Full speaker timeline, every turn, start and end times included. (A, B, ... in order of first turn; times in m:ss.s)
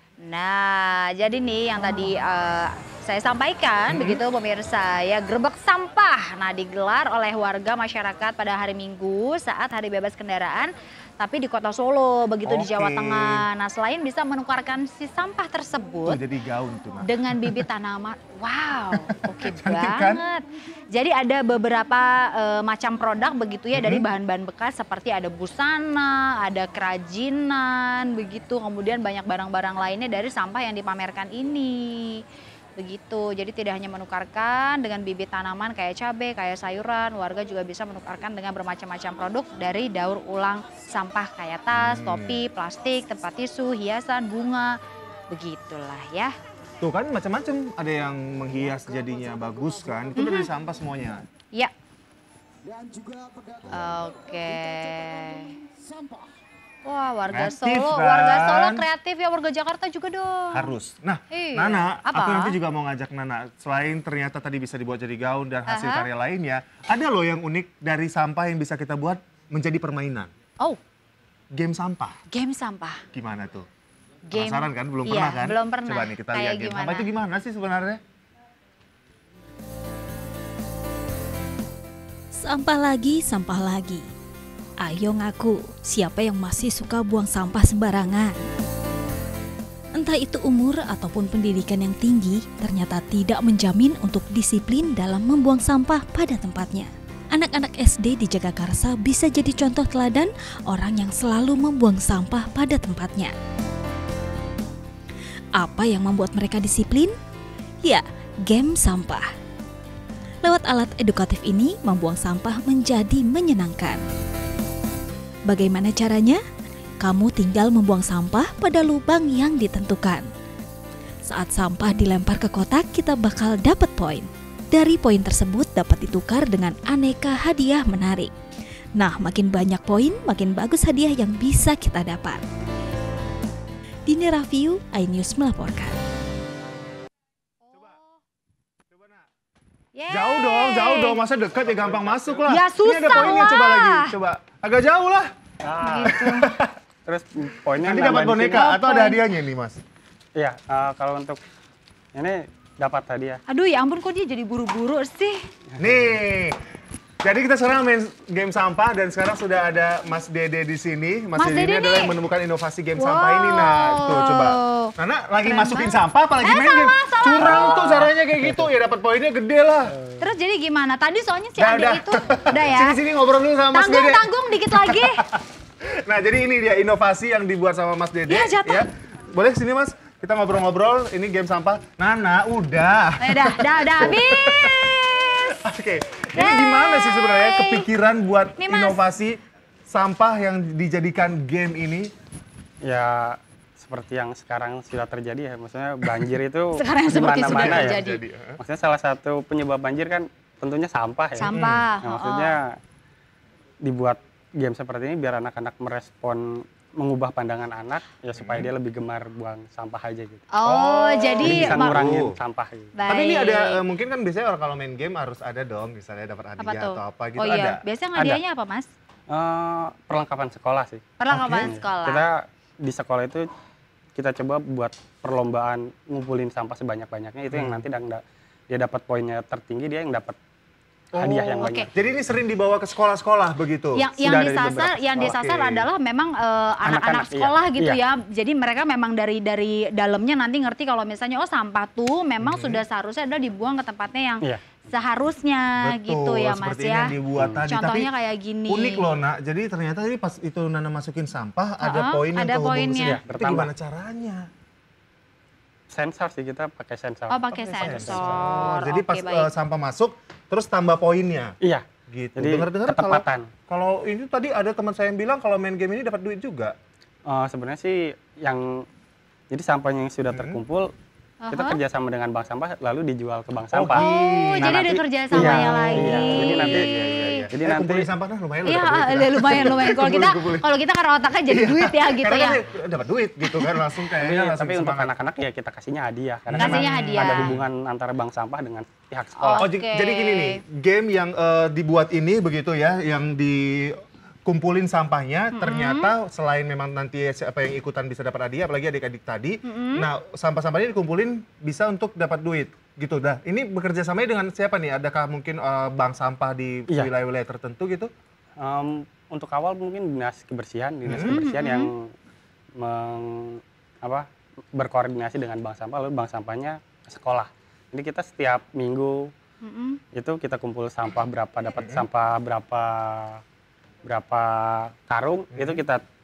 0:00.2-0:16.2 A
0:03.9-0:04.2 B
0:12.4-0:13.4 B
0:16.0-0:17.7 B
0:17.0-0:32.2 A
0:19.1-0:20.2 B
0:23.7-0:24.0 B
0:32.8-0:44.8 A
0:41.7-0:42.4 B
0:45.3-0:46.3 A
0:46.8-0:51.2 B
0:50.2-0:50.5 A
0:53.7-0:55.5 A
0:56.8-1:00.7 A
0:57.3-0:58.9 B
1:00.5-1:10.3 B
1:01.3-1:02.6 A
1:05.7-1:06.1 A
1:11.5-1:12.2 B
1:12.3-1:13.0 A
1:13.1-1:13.7 B
1:14.3-1:17.1 A
1:14.3-1:18.0 B
1:22.3-1:24.1 C
1:24.8-1:28.4 C
1:29.9-1:43.3 C
1:45.5-1:47.1 C
1:47.8-1:49.3 C
1:50.4-1:54.0 C
1:55.5-1:56.4 C
1:57.0-2:00.3 C
2:01.2-2:08.3 C
2:09.0-2:12.4 C
2:14.1-2:16.0 C
2:17.7-2:18.2 A
2:18.9-2:19.3 B
2:19.9-2:21.2 A
2:20.1-2:25.3 B
2:21.5-2:22.4 D
2:22.5-2:24.1 A
2:25.6-2:26.2 D
2:25.8-2:26.5 A
2:26.0-2:26.8 B
2:27.1-2:28.7 D
2:27.8-2:29.8 B
2:28.5-2:29.2 A
2:30.4-2:31.4 D
2:32.1-2:33.4 D
2:33.5-2:35.4 A
2:35.8-2:36.6 B
2:37.2-2:49.9 B
2:41.4-2:42.1 A
2:43.0-2:48.1 A
2:50.2-2:53.0 A
2:51.6-3:09.4 B
2:53.7-2:55.2 A
2:58.3-2:58.8 A
3:03.2-3:05.2 A
3:06.3-3:07.9 A
3:08.6-3:09.0 A
3:09.9-3:12.1 B
3:12.8-3:18.0 D
3:16.8-3:18.2 A
3:17.4-3:18.6 B
3:18.6-3:22.6 D
3:21.4-3:22.5 A
3:21.5-3:21.8 B
3:23.8-3:26.5 D
3:27.0-3:30.4 D
3:28.4-3:28.7 B
3:30.5-3:32.0 A
3:30.6-3:32.4 B
3:31.4-3:32.9 D
3:32.9-3:33.8 A
3:33.1-3:37.8 B
3:36.6-3:38.9 A
3:39.3-3:43.4 D
3:41.2-3:42.2 A
3:41.3-3:41.7 B
3:44.2-3:50.4 D
3:47.5-3:47.8 B
3:51.1-3:54.0 B
3:51.2-3:52.0 D
3:51.5-3:51.9 A
3:54.0-4:09.1 A
3:54.2-3:55.9 D
3:56.8-3:58.0 D
4:02.4-4:02.8 B
4:05.8-4:08.1 B
4:08.7-4:14.5 B
4:11.8-4:13.2 A
4:13.0-4:13.7 D
4:15.9-4:18.7 D
4:17.3-4:19.5 A
4:17.5-4:21.6 B
4:22.1-4:26.8 B
4:22.4-4:23.5 D
4:27.3-4:28.8 D
4:29.5-4:30.9 D
4:30.3-4:30.6 B
4:31.4-4:31.8 A
4:31.5-4:34.1 D
4:33.7-4:40.7 B
4:34.0-4:37.5 A
4:34.6-4:36.9 D
4:37.5-4:38.1 D
4:38.6-4:42.6 A
4:41.5-4:45.4 B
4:43.4-4:43.8 A
4:44.2-4:49.7 D
4:46.5-4:47.7 B
4:46.6-4:47.5 A
4:49.4-4:50.6 A
4:49.6-5:08.1 B
4:55.5-4:56.1 A
4:59.6-5:00.1 A
5:08.6-5:12.1 D
5:11.1-5:11.4 B
5:11.1-5:11.9 A
5:12.8-5:19.3 D
5:19.6-5:20.0 A
5:20.1-5:23.4 D
5:21.8-5:22.0 B
5:24.0-5:26.0 D
5:25.5-5:25.8 B